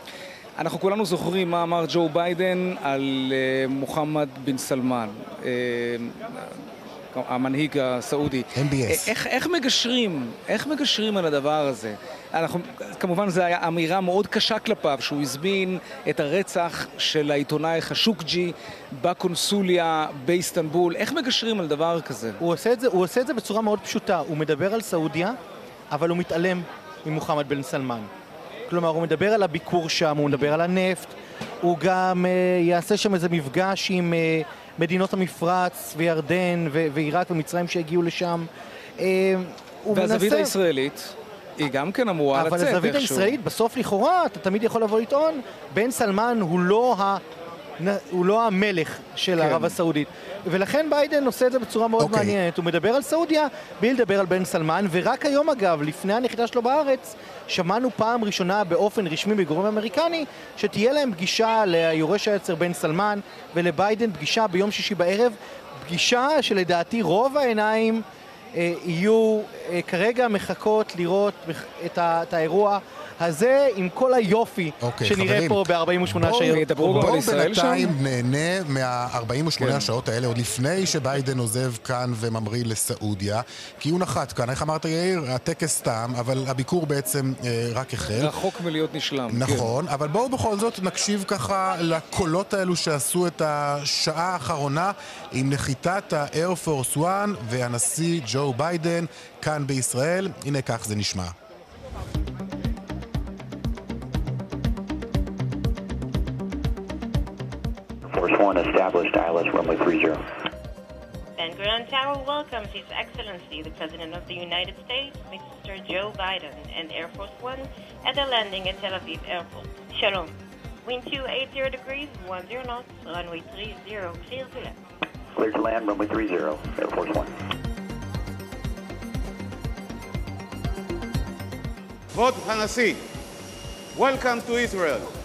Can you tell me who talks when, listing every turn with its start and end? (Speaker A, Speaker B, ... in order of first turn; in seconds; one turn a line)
Speaker A: 0.6-6.5
Speaker A: 7.1-22.4
Speaker B: 8.5-9.1
Speaker C: 22.4-25.4
Speaker C: 25.9-28.1
Speaker C: 28.7-40.5
Speaker A: 39.9-43.4
Speaker C: 42.3-47.2
Speaker C: 47.8-77.1
Speaker A: 49.4-49.7
Speaker B: 52.0-52.4
Speaker B: 74.8-88.3
Speaker A: 76.4-77.9
Speaker A: 79.6-79.9
Speaker A: 88.1-89.7
Speaker B: 89.3-101.3
Speaker D: 108.1-110.2
Speaker E: 111.4-120.3
Speaker E: 120.8-124.8
Speaker D: 125.3-127.3
Speaker F: 132.1-133.0
Speaker F: 133.9-135.1